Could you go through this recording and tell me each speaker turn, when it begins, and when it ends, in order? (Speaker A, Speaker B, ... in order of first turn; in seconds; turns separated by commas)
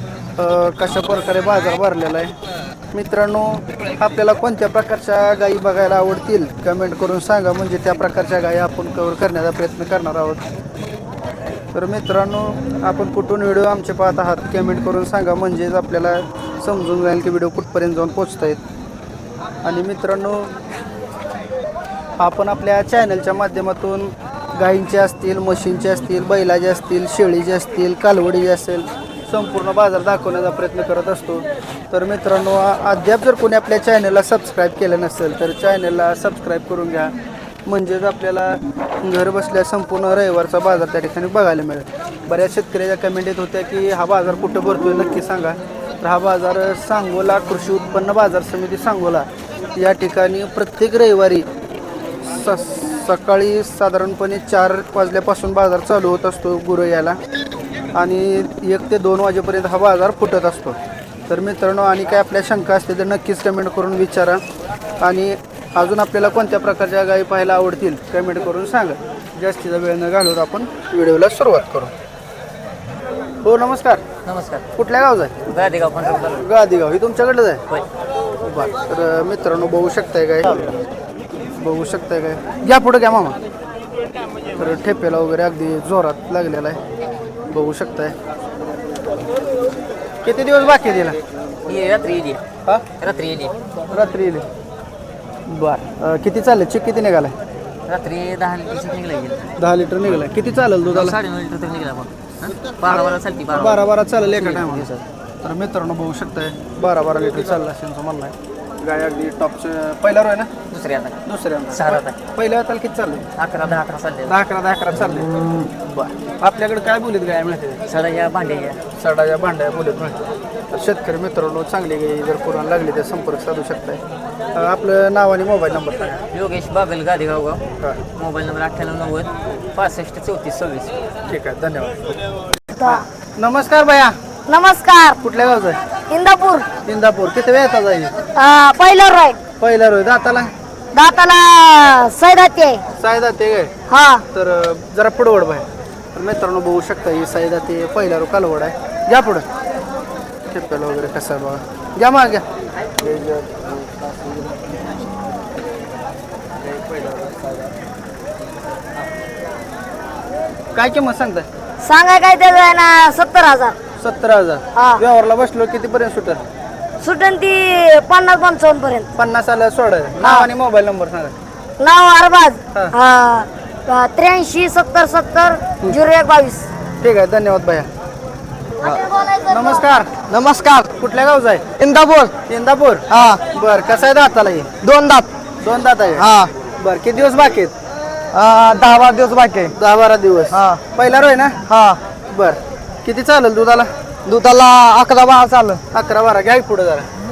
Speaker A: 0.4-2.3, Speaker A: 2.9-10.4, Speaker A: 11.7-18.6, Speaker A: 19.6-20.5, Speaker A: 22.2-37.1, Speaker A: 37.6-51.5, Speaker A: 52.2-57.2, Speaker A: 57.9-64.4, Speaker A: 65.0-71.9, Speaker A: 73.4-74.0, Speaker B: 74.2-74.6, Speaker A: 74.8-75.4, Speaker B: 75.5-76.4, Speaker A: 76.1-77.6, Speaker A: 78.4-80.7, Speaker A: 81.5-83.4, Speaker A: 84.5-86.8, Speaker A: 87.5-88.1, Speaker A: 90.2-91.2, Speaker B: 91.7-92.4, Speaker B: 93.0-93.5, Speaker A: 93.9-94.4, Speaker A: 95.5-97.3, Speaker B: 97.9-99.5, Speaker A: 99.6-101.2, Speaker B: 100.8-103.8, Speaker A: 102.9-104.9, Speaker B: 104.4-105.0, Speaker A: 105.4-110.5, Speaker B: 110.7-111.2, Speaker A: 111.2-113.2, Speaker B: 111.7-112.1, Speaker B: 113.3-114.3, Speaker A: 114.3-117.8, Speaker B: 117.9-118.8, Speaker A: 119.0-120.2, Speaker A: 120.7-124.0, Speaker A: 124.5-126.2, Speaker B: 126.3-127.6, Speaker B: 128.1-131.0, Speaker A: 131.3-132.2, Speaker C: 132.8-133.0, Speaker A: 132.8-134.2, Speaker C: 134.5-135.2, Speaker A: 135.2-135.8, Speaker C: 136.1-136.7, Speaker A: 136.8-138.1, Speaker C: 138.3-139.4, Speaker A: 139.6-140.5, Speaker C: 140.9-142.8, Speaker A: 143.0-143.7, Speaker C: 143.9-144.2, Speaker A: 144.3-149.4, Speaker A: 150.5-152.4, Speaker A: 160.7-161.4, Speaker C: 161.8-163.8, Speaker A: 164.0-166.4, Speaker C: 164.8-165.0, Speaker C: 167.0-169.1, Speaker A: 169.2-171.3, Speaker C: 170.2-170.5, Speaker C: 171.8-176.7, Speaker A: 177.0-177.9, Speaker C: 178.8-179.8, Speaker A: 179.5-180.1, Speaker D: 180.3-180.9, Speaker A: 181.0-181.6, Speaker D: 181.8-182.3, Speaker A: 182.5-184.7, Speaker D: 183.1-183.4, Speaker D: 184.8-185.3, Speaker A: 185.6-186.3, Speaker D: 186.2-186.5, Speaker A: 186.8-187.7, Speaker D: 188.3-189.7, Speaker A: 189.7-191.6, Speaker D: 190.5-190.8, Speaker D: 191.7-192.0, Speaker A: 192.3-193.9, Speaker D: 194.2-195.8, Speaker A: 195.9-197.1